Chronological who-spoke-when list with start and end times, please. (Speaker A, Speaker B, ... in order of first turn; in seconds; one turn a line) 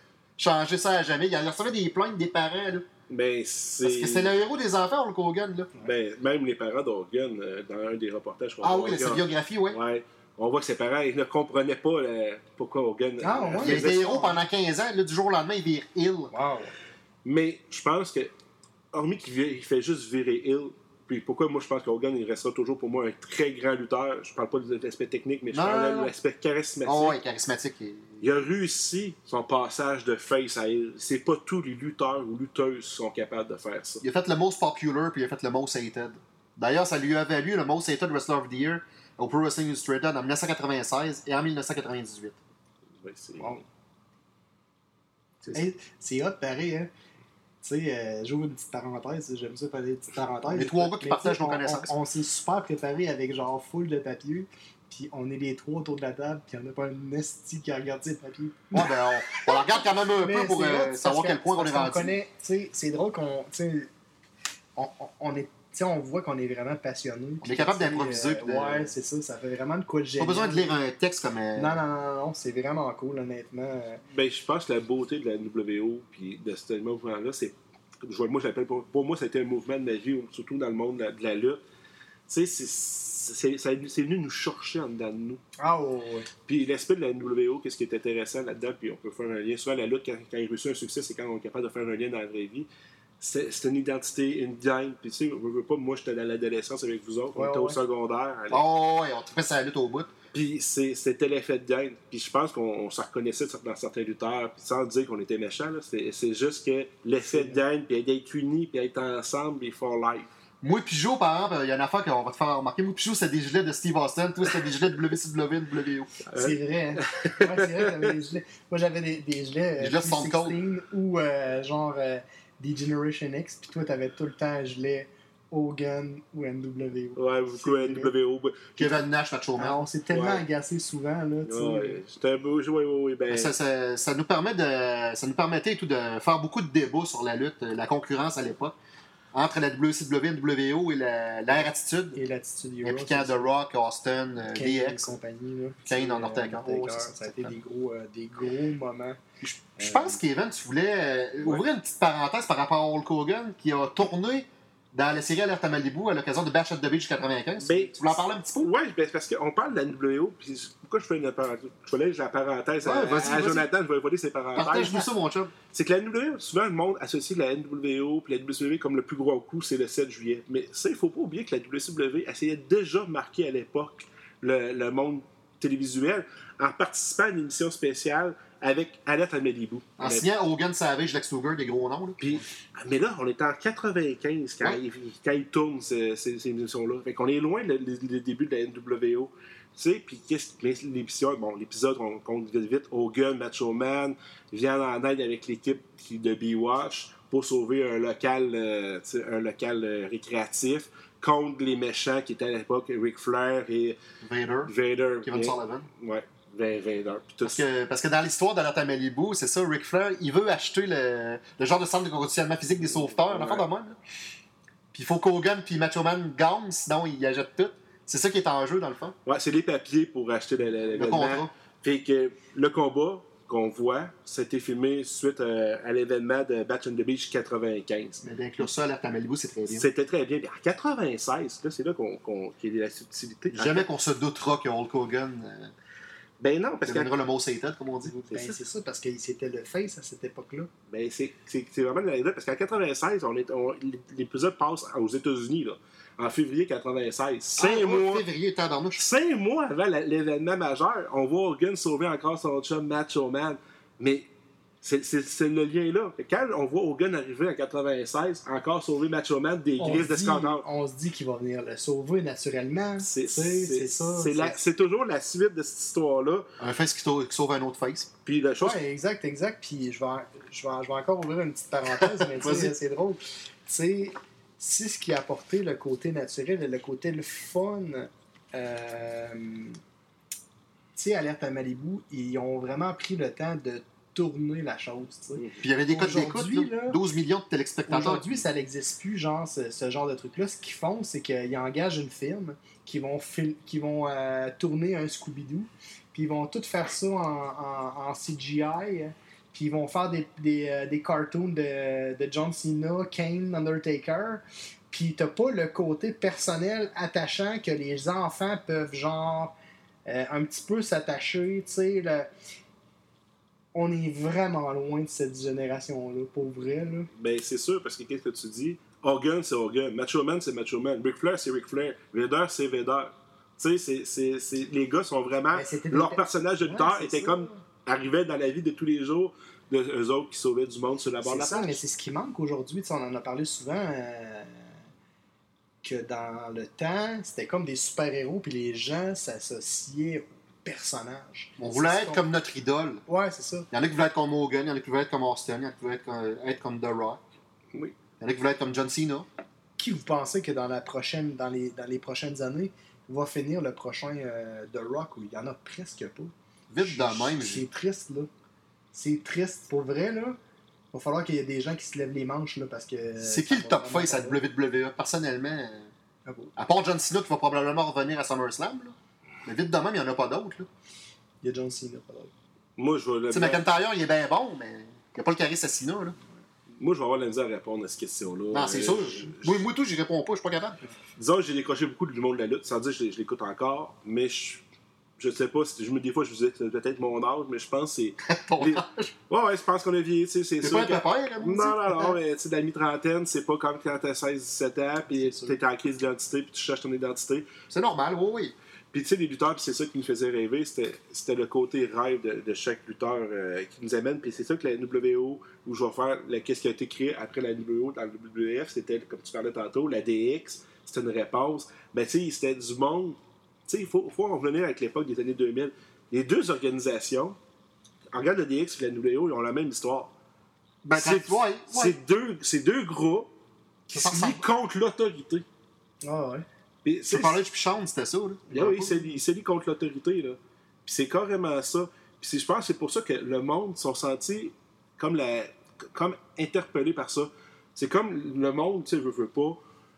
Speaker A: 0.4-2.9
Speaker B: 3.1-4.3
Speaker A: 3.8-5.7
Speaker B: 5.8-14.0
Speaker A: 8.6-9.8
Speaker C: 13.2-14.4
Speaker A: 13.6-16.3
Speaker C: 16.3-16.7
Speaker B: 17.2-18.3
Speaker B: 18.9-27.2
Speaker A: 25.5-26.1
Speaker A: 26.9-28.1
Speaker B: 28.2-34.0
Speaker A: 34.0-42.4
Speaker B: 43.0-43.6
Speaker C: 45.5-46.9
Speaker C: 47.6-63.9
Speaker A: 50.5-51.9
Speaker A: 58.7-62.1
Speaker C: 64.8-70.8
Speaker A: 67.4-68.9
Speaker A: 70.2-71.7
Speaker C: 71.5-74.0
Speaker B: 74.1-81.6
Speaker B: 82.3-85.4
Speaker C: 85.6-86.3
Speaker B: 86.5-92.7
Speaker B: 93.2-98.6
Speaker C: 97.3-97.8
Speaker A: 98.5-100.1
Speaker B: 100.3-110.3
Speaker C: 107.3-107.6
Speaker A: 110.6-116.2
Speaker B: 116.3-118.1
Speaker C: 116.4-128.1
Speaker A: 119.8-120.6
Speaker B: 127.2-129.0
Speaker A: 128.8-129.8
Speaker C: 129.6-132.0
Speaker B: 130.1-130.4
Speaker B: 131.4-133.5
Speaker A: 133.3-138.8
Speaker A: 139.3-142.2
Speaker C: 142.2-143.5
Speaker A: 142.8-145.2
Speaker C: 144.6-149.2
Speaker A: 145.9-147.5
Speaker A: 149.4-158.7
Speaker C: 149.8-150.2
Speaker B: 157.6-165.1
Speaker A: 162.8-163.7
Speaker A: 164.6-165.5
Speaker B: 165.7-180.3
Speaker A: 180.0-182.2
Speaker B: 182.2-204.0
Speaker A: 204.2-204.7
Speaker B: 204.7-207.6
Speaker A: 205.2-205.9
Speaker A: 207.4-214.0
Speaker B: 212.8-213.7
Speaker A: 214.9-219.2
Speaker B: 219.3-228.2
Speaker A: 220.9-221.5
Speaker A: 228.2-229.9
Speaker B: 229.7-233.9
Speaker A: 233.5-235.7
Speaker B: 236.4-237.1
Speaker A: 236.9-238.1
Speaker C: 238.0-240.7
Speaker B: 238.3-238.6
Speaker B: 240.9-248.2
Speaker A: 247.6-249.1
Speaker B: 249.0-254.3
Speaker B: 254.8-260.6
Speaker C: 259.8-264.6
Speaker B: 263.0-266.5
Speaker A: 266.6-268.1
Speaker B: 268.2-268.8
Speaker C: 268.6-279.8
Speaker A: 272.0-272.8
Speaker C: 281.0-287.0
Speaker B: 285.4-285.6
Speaker A: 285.6-288.4
Speaker C: 287.9-309.5
Speaker C: 310.1-312.3
Speaker C: 313.8-317.1
Speaker B: 317.2-331.8
Speaker C: 325.5-327.6
Speaker C: 331.2-334.7
Speaker C: 335.8-342.2
Speaker A: 341.6-343.0
Speaker C: 343.1-343.7
Speaker A: 343.7-347.2
Speaker A: 348.2-349.3
Speaker C: 349.8-358.3
Speaker A: 356.7-357.7
Speaker C: 358.9-360.4
Speaker C: 360.9-364.4
Speaker A: 363.2-365.9
Speaker C: 366.3-366.5
Speaker A: 366.6-368.9
Speaker A: 369.4-370.7
Speaker C: 371.4-372.3
Speaker B: 372.8-373.6
Speaker A: 373.3-376.2
Speaker B: 376.8-379.6
Speaker A: 378.5-380.8
Speaker B: 381.2-384.6
Speaker B: 385.2-397.5
Speaker A: 388.3-389.1
Speaker A: 390.6-392.2
Speaker C: 395.1-395.6
Speaker A: 397.7-398.5
Speaker B: 398.9-417.4
Speaker B: 418.1-420.1
Speaker A: 420.8-422.0
Speaker B: 420.9-423.3
Speaker B: 423.9-425.4
Speaker A: 423.9-424.4
Speaker C: 426.0-426.4
Speaker B: 426.9-427.4
Speaker A: 427.1-428.8
Speaker C: 428.5-429.2
Speaker B: 428.5-439.6